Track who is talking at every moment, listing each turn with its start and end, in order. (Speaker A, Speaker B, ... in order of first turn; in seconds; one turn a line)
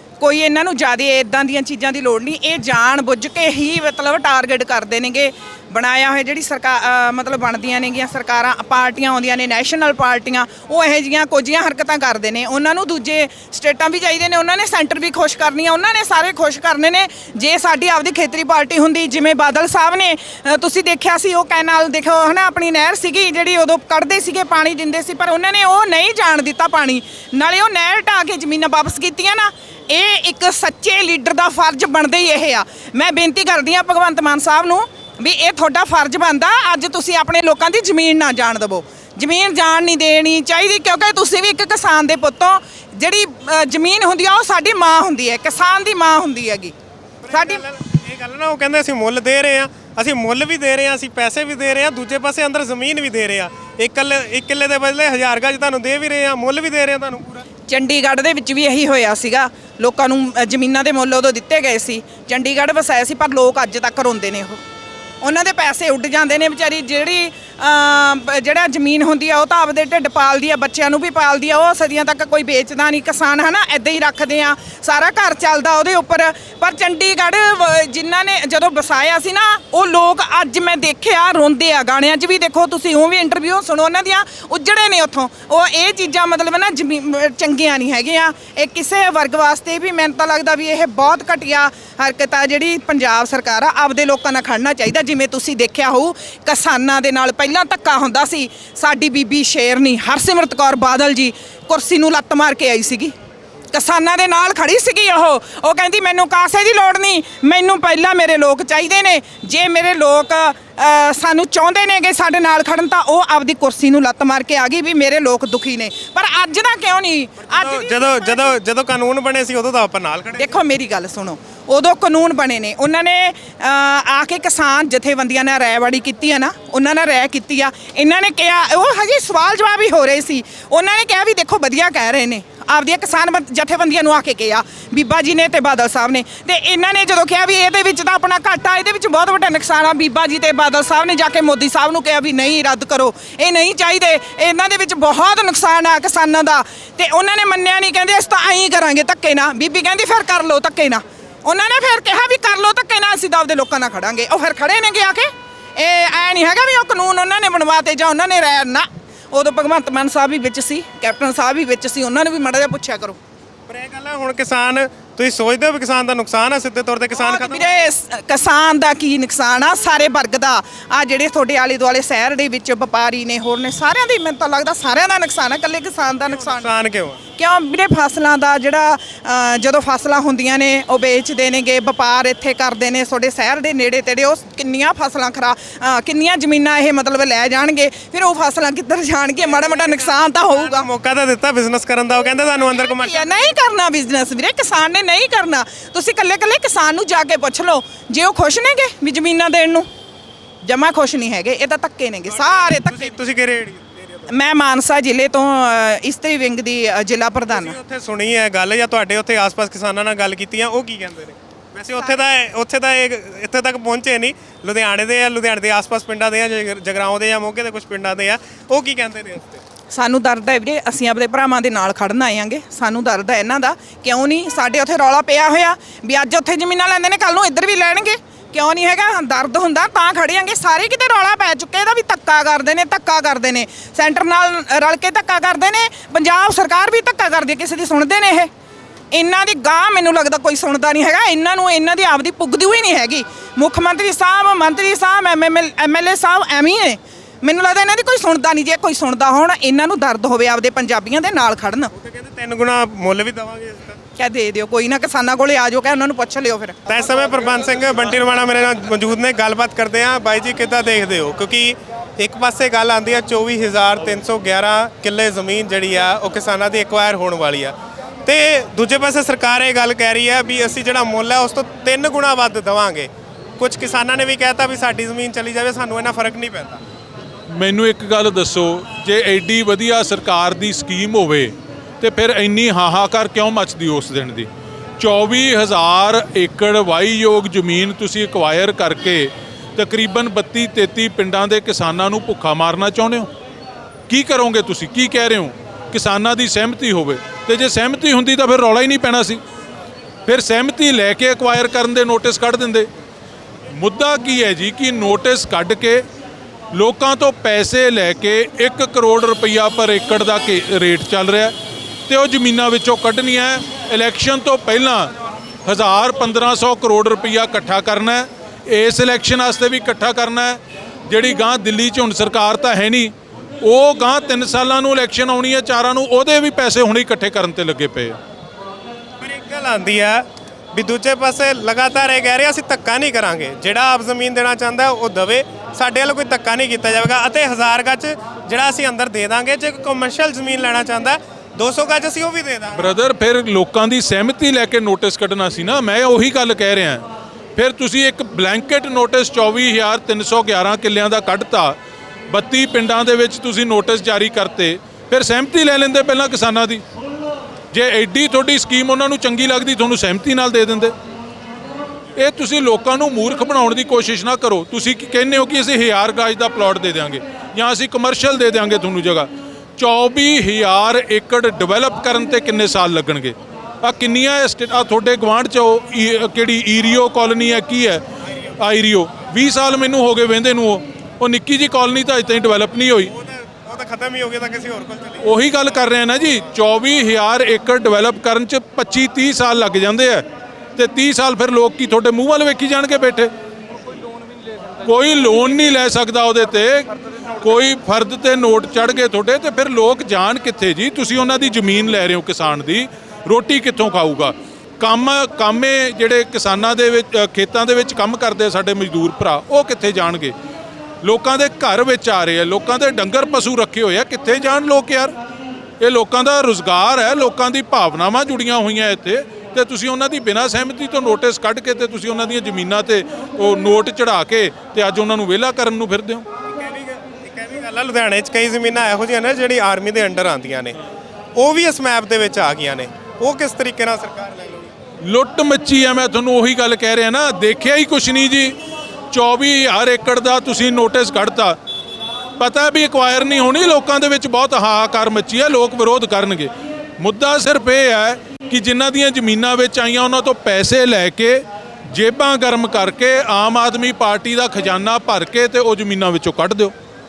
Speaker A: 0.2-46.7
Speaker B: 47.2-57.5
Speaker A: 47.3-47.6
Speaker A: 57.7-64.6
Speaker A: 65.2-103.1
Speaker A: 103.7-118.5
Speaker B: 117.5-120.6
Speaker A: 120.4-163.2
Speaker B: 163.7-167.8
Speaker A: 167.1-176.7
Speaker B: 176.3-177.2
Speaker A: 177.3-190.9
Speaker B: 189.4-193.5
Speaker A: 192.7-199.9
Speaker A: 200.6-203.2
Speaker B: 202.3-204.3
Speaker A: 204.3-207.8
Speaker B: 207.5-219.6
Speaker A: 219.9-238.5
Speaker A: 239.1-251.9
Speaker B: 252.0-254.0
Speaker A: 254.2-256.8
Speaker B: 256.9-267.8
Speaker B: 268.3-276.8
Speaker C: 277.5-293.3
Speaker C: 294.1-299.4
Speaker C: 300.3-302.9
Speaker C: 303.7-306.1
Speaker C: 306.7-311.5
Speaker C: 312.1-315.1
Speaker C: 315.6-328.2
Speaker B: 329.2-342.9
Speaker C: 342.8-351.8
Speaker C: 352.3-356.8
Speaker C: 357.7-360.9
Speaker C: 362.2-378.0
Speaker C: 378.6-383.1
Speaker B: 383.1-385.3
Speaker C: 385.2-393.3
Speaker C: 394.9-410.3
Speaker C: 411.0-415.1
Speaker C: 415.8-426.3
Speaker B: 426.5-430.8
Speaker B: 431.4-434.7
Speaker C: 435.0-438.6
Speaker C: 439.1-441.6
Speaker C: 442.4-456.7